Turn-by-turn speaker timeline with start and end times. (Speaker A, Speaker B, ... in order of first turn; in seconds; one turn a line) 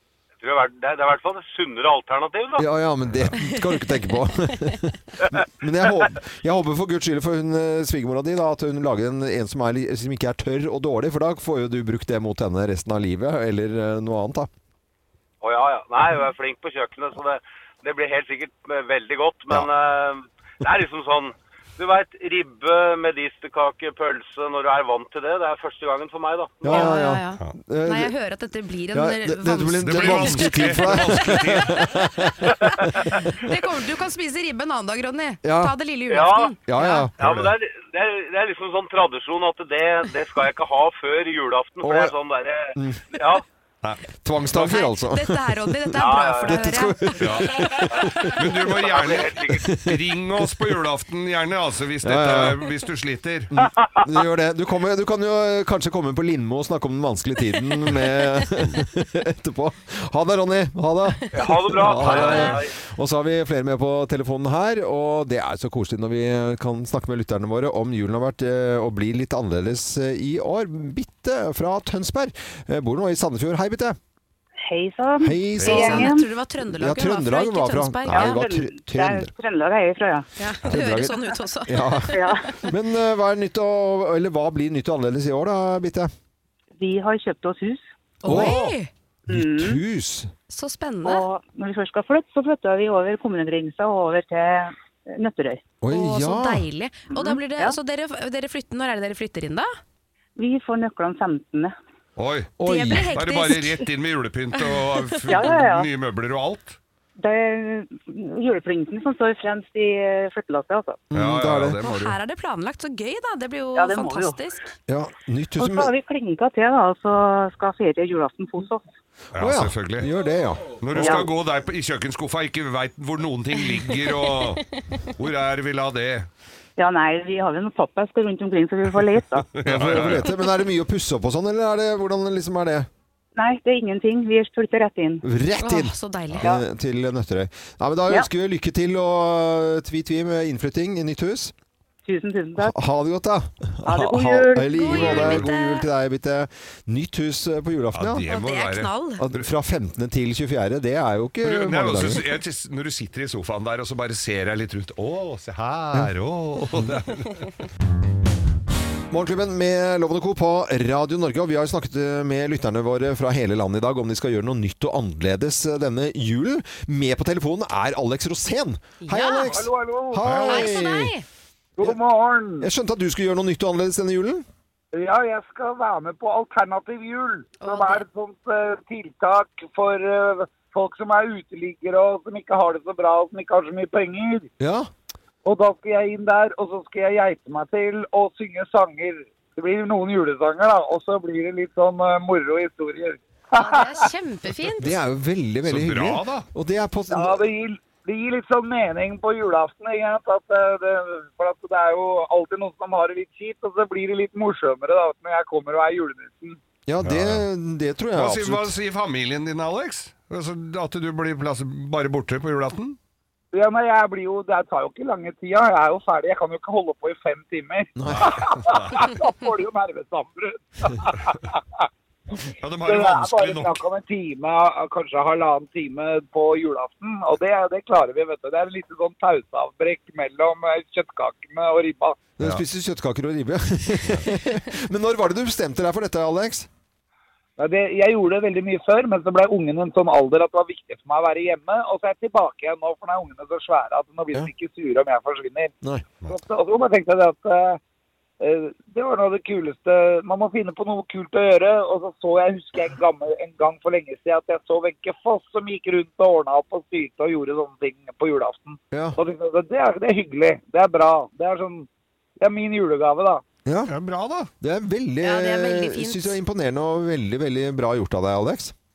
Speaker A: 0.4-2.7
Speaker B: 2.6-14.5
Speaker C: 3.1-3.3
Speaker A: 15.4-26.9
Speaker B: 26.6-28.1
Speaker D: 26.6-31.8
Speaker B: 28.9-33.5
Speaker C: 29.8-31.9
Speaker D: 33.3-37.1
Speaker B: 35.4-35.7
Speaker A: 36.1-36.5
Speaker B: 36.7-37.1
Speaker C: 37.2-37.5
Speaker A: 37.2-43.4
Speaker B: 41.8-42.1
Speaker B: 42.7-43.0
Speaker B: 44.2-48.5
Speaker D: 44.6-47.5
Speaker A: 46.0-46.5
Speaker C: 47.2-53.5
Speaker A: 48.7-49.6
Speaker B: 49.6-50.0
Speaker B: 52.0-52.6
Speaker B: 53.6-74.0
Speaker A: 61.3-62.7
Speaker C: 61.9-62.6
Speaker E: 74.6-76.3
Speaker B: 75.2-76.1
Speaker C: 75.5-75.9
Speaker D: 76.1-78.3
Speaker B: 76.7-79.3
Speaker E: 78.1-80.3
Speaker D: 80.4-82.5
Speaker B: 80.7-86.1
Speaker E: 82.1-82.4
Speaker E: 86.8-87.8
Speaker D: 88.2-88.9
Speaker B: 88.2-88.7
Speaker E: 89.3-89.8
Speaker B: 89.3-90.3
Speaker D: 90.5-91.2
Speaker E: 91.0-95.6
Speaker B: 95.8-96.7
Speaker D: 95.9-99.7
Speaker E: 97.1-97.8
Speaker E: 100.4-101.8
Speaker C: 102.2-102.6
Speaker B: 102.6-103.2
Speaker D: 102.6-103.8
Speaker C: 103.1-106.8
Speaker E: 105.3-105.9
Speaker E: 107.2-111.0
Speaker B: 111.1-111.8
Speaker C: 111.1-112.2
Speaker D: 111.8-114.6
Speaker E: 113.8-114.4
Speaker B: 114.9-115.9
Speaker E: 115.6-118.8
Speaker C: 119.3-120.1
Speaker B: 119.4-121.3
Speaker C: 120.8-126.3
Speaker E: 121.0-121.3
Speaker E: 126.8-129.5
Speaker C: 129.5-130.3
Speaker B: 129.6-132.9
Speaker D: 130.2-130.5
Speaker E: 133.4-135.2
Speaker B: 135.2-141.5
Speaker D: 135.6-136.5
Speaker E: 142.1-142.8
Speaker B: 142.6-148.2
Speaker E: 143.8-144.9
Speaker D: 144.8-145.9
Speaker C: 144.9-145.5
Speaker C: 147.9-149.5
Speaker D: 148.2-149.2
Speaker B: 149.2-152.2
Speaker C: 151.4-157.4
Speaker B: 159.1-171.1
Speaker D: 169.0-169.6
Speaker F: 169.5-170.2
Speaker C: 170.2-170.8
Speaker D: 170.3-171.2
Speaker F: 171.8-172.7
Speaker B: 172.6-174.4
Speaker F: 174.9-184.5
Speaker D: 177.6-178.1
Speaker B: 184.6-184.9
Speaker F: 185.4-194.1
Speaker D: 193.6-195.0
Speaker B: 194.8-197.5
Speaker C: 195.7-196.5
Speaker F: 197.1-206.6
Speaker B: 206.9-208.7
Speaker C: 207.0-207.4
Speaker C: 208.2-213.0
Speaker F: 213.5-221.8
Speaker B: 218.0-218.7
Speaker C: 218.1-219.1
Speaker C: 222.6-223.8
Speaker F: 222.8-232.2
Speaker B: 232.4-236.7
Speaker F: 237.6-245.8
Speaker F: 246.3-247.8
Speaker F: 248.4-261.9
Speaker B: 258.9-259.2
Speaker F: 262.4-263.4
Speaker B: 263.7-263.9
Speaker C: 263.9-264.5
Speaker B: 264.6-268.7
Speaker D: 265.2-266.4